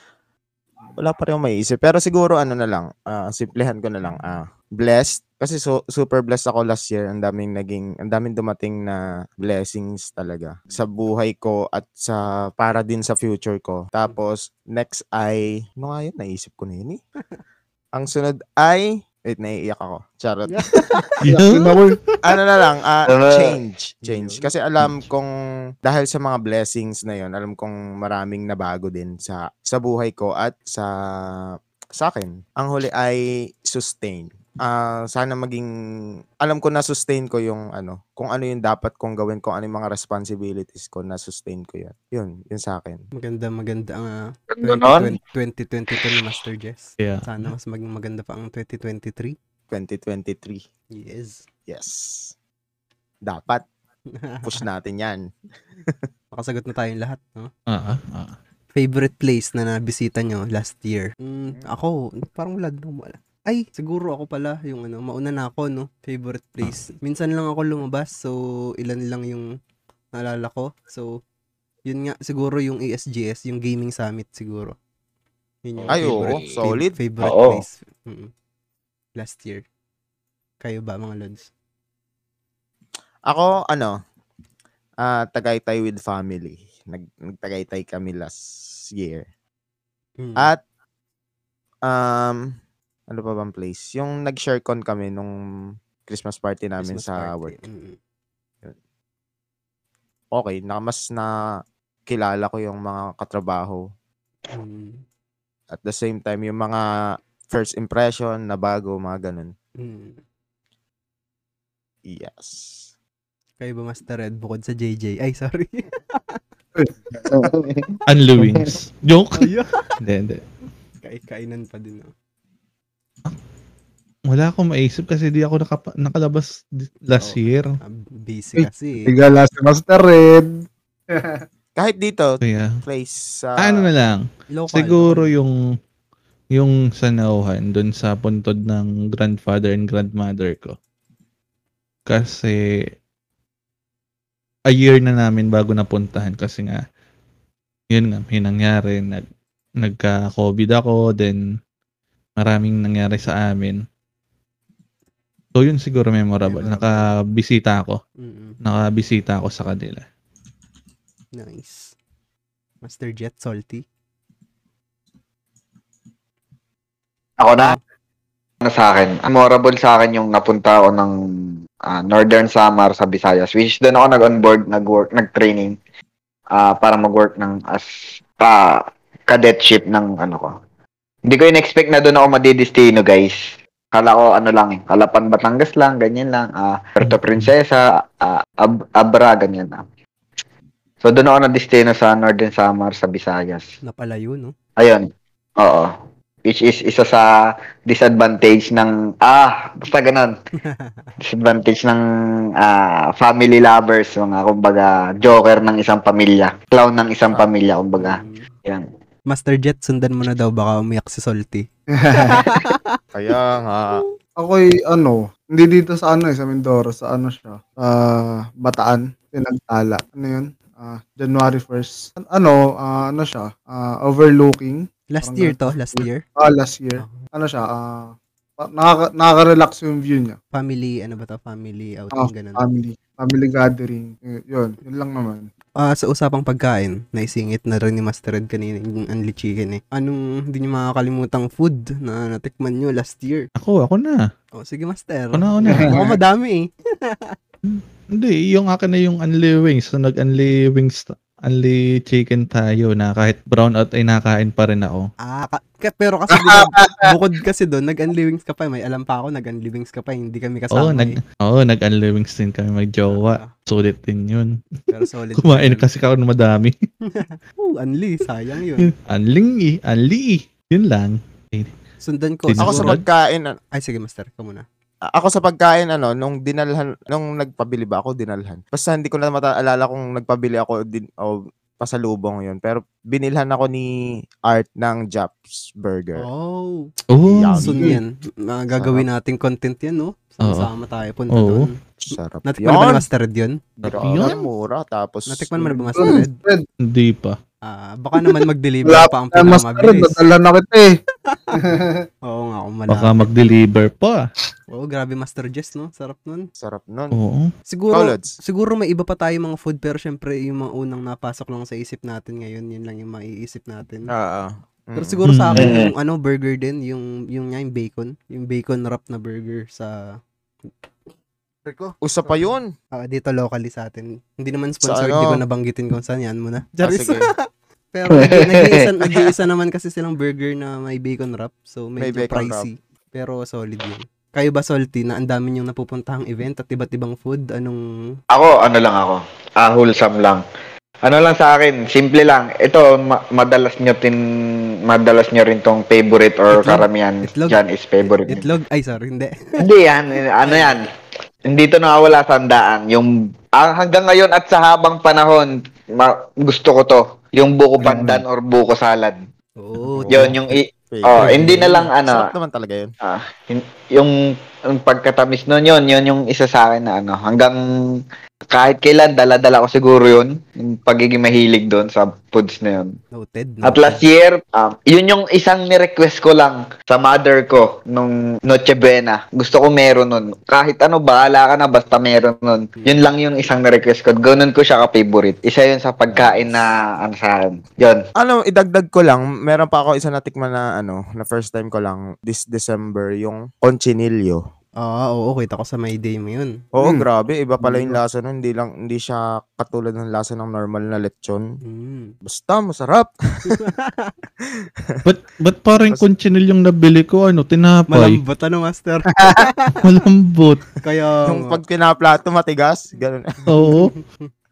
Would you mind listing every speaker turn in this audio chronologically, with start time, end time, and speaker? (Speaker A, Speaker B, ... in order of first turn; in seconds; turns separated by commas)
Speaker A: 1.0-17.0, Speaker A: 17.9-20.6, Speaker B: 20.5-21.2, Speaker C: 21.2-21.8, Speaker D: 21.3-22.0, Speaker A: 22.2-25.3, Speaker E: 23.1-23.6, Speaker B: 24.0-24.5, Speaker A: 25.8-35.7, Speaker A: 36.4-43.0, Speaker B: 43.2-49.4, Speaker E: 44.5-45.2, Speaker C: 47.0-47.5, Speaker A: 49.7-50.6, Speaker B: 51.0-51.5, Speaker A: 51.7-52.3, Speaker A: 53.2-53.6, Speaker B: 54.1-54.6, Speaker A: 54.4-56.1, Speaker B: 56.3-57.5, Speaker C: 57.7-58.4, Speaker B: 58.8-69.5, Speaker B: 70.2-71.2, Speaker B: 71.9-74.8, Speaker B: 75.7-78.3, Speaker E: 75.8-76.6, Speaker A: 75.9-77.0, Speaker E: 77.2-77.7, Speaker B: 79.2-79.6, Speaker B: 80.6-81.5, Speaker A: 83.3-84.0, Speaker A: 85.0-89.2, Speaker B: 90.2-90.5, Speaker A: 91.8-92.5, Speaker A: 93.1-95.3, Speaker A: 96.1-97.6, Speaker B: 96.8-98.0, Speaker A: 100.3-101.4, Speaker A: 102.1-103.8, Speaker B: 104.5-105.0, Speaker A: 105.7-106.9, Speaker A: 107.5-109.5, Speaker B: 109.8-110.2, Speaker A: 112.1-112.9, Speaker B: 113.6-116.4, Speaker D: 116.8-117.5, Speaker E: 117.4-118.0, Speaker C: 118.1-120.4, Speaker B: 119.4-120.0, Speaker B: 121.0-122.1, Speaker C: 124.3-127.8, Speaker B: 127.2-129.1, Speaker D: 129.1-131.4, Speaker A: 131.8-133.9, Speaker C: 132.4-132.8, Speaker C: 133.6-135.6, Speaker B: 134.5-135.3, Speaker C: 136.5-140.8, Speaker C: 142.1-142.9, Speaker C: 144.7-146.8, Speaker C: 147.9-149.2, Speaker C: 149.8-151.4, Speaker C: 152.4-153.8, Speaker C: 155.6-158.0, Speaker D: 156.4-157.0, Speaker B: 158.2-158.6, Speaker C: 158.6-160.0, Speaker B: 161.3-161.9, Speaker B: 162.8-163.8, Speaker E: 167.4-167.8, Speaker E: 168.6-171.1, Speaker E: 171.9-175.8, Speaker E: 176.5-180.5, Speaker E: 181.3-189.8, Speaker C: 187.0-187.5, Speaker E: 191.0-193.7, Speaker B: 193.8-194.6, Speaker E: 194.8-195.9, Speaker E: 196.4-197.2, Speaker E: 197.9-200.3, Speaker B: 200.6-201.1, Speaker E: 201.2-202.0, Speaker E: 202.6-208.8, Speaker B: 208.0-208.5, Speaker B: 209.3-213.0, Speaker D: 211.9-212.6, Speaker A: 213.1-214.0, Speaker D: 214.4-230.4, Speaker B: 225.1-226.2, Speaker B: 227.0-227.3, Speaker B: 230.5-232.7, Speaker D: 232.1-235.5, Speaker B: 235.8-243.5, Speaker C: 243.6-244.3, Speaker B: 244.6-247.4, Speaker C: 245.3-246.0, Speaker D: 245.7-246.0, Speaker C: 247.7-255.1, Speaker B: 255.2-261.2, Speaker D: 256.3-257.1, Speaker C: 260.7-264.6, Speaker B: 263.1-263.5, Speaker B: 264.9-265.9, Speaker C: 265.4-266.7, Speaker B: 267.1-268.9, Speaker C: 268.8-271.7, Speaker B: 272.0-273.0, Speaker C: 272.5-273.0, Speaker A: 272.6-273.6, Speaker B: 273.7-274.6, Speaker A: 275.1-286.2, Speaker B: 286.2-286.9, Speaker C: 287.1-287.9, Speaker A: 287.2-288.0, Speaker B: 287.6-291.8, Speaker A: 288.7-289.1, Speaker C: 290.4-290.7, Speaker C: 291.3-291.7, Speaker A: 292.0-293.0, Speaker B: 292.5-293.6, Speaker C: 293.8-294.4, Speaker A: 293.8-295.9, Speaker B: 295.3-296.4, Speaker D: 295.9-296.7, Speaker C: 296.8-297.4, Speaker B: 297.6-300.2, Speaker D: 298.2-301.0, Speaker B: 301.3-301.6, Speaker D: 301.5-302.0, Speaker B: 302.3-303.3, Speaker C: 302.9-304.3, Speaker B: 304.7-306.5, Speaker A: 306.6-307.2, Speaker C: 307.1-307.5, Speaker B: 307.7-314.1, Speaker A: 307.9-308.4, Speaker A: 314.1-315.2, Speaker B: 315.0-320.2, Speaker C: 315.3-315.8, Speaker E: 315.6-315.9, Speaker B: 321.7-321.9, Speaker A: 322.0-322.7, Speaker B: 322.9-327.3, Speaker A: 324.8-325.4, Speaker A: 326.8-327.3, Speaker B: 327.9-337.8, Speaker E: 328.1-328.9, Speaker A: 332.0-332.7, Speaker E: 338.3-340.4, Speaker E: 341.0-344.2, Speaker E: 344.9-348.5, Speaker B: 346.5-349.4, Speaker E: 349.6-350.8, Speaker B: 350.4-350.8, Speaker E: 351.5-359.2, Speaker B: 359.6-360.4, Speaker A: 359.9-360.4, Speaker E: 360.1-362.3, Speaker A: 360.9-362.9, Speaker B: 361.2-361.9, Speaker E: 363.0-364.1, Speaker E: 364.7-373.0, Speaker B: 373.1-374.1, Speaker E: 373.6-388.0, Speaker B: 382.8-383.1, Speaker A: 386.1-386.6, Speaker A: 388.2-394.4, Speaker B: 394.8-396.6, Speaker A: 396.8-401.6, Speaker D: 396.8-397.1, Speaker B: 397.6-398.0, Speaker B: 401.6-402.1, Speaker A: 402.2-403.6, Speaker B: 403.5-404.1, Speaker A: 404.4-405.0, Speaker C: 405.1-408.2, Speaker B: 407.9-409.9, Speaker D: 409.1-409.5, Speaker C: 409.8-410.7, Speaker B: 410.8-411.6, Speaker A: 411.2-413.6, Speaker C: 413.5-413.9, Speaker B: 413.6-414.3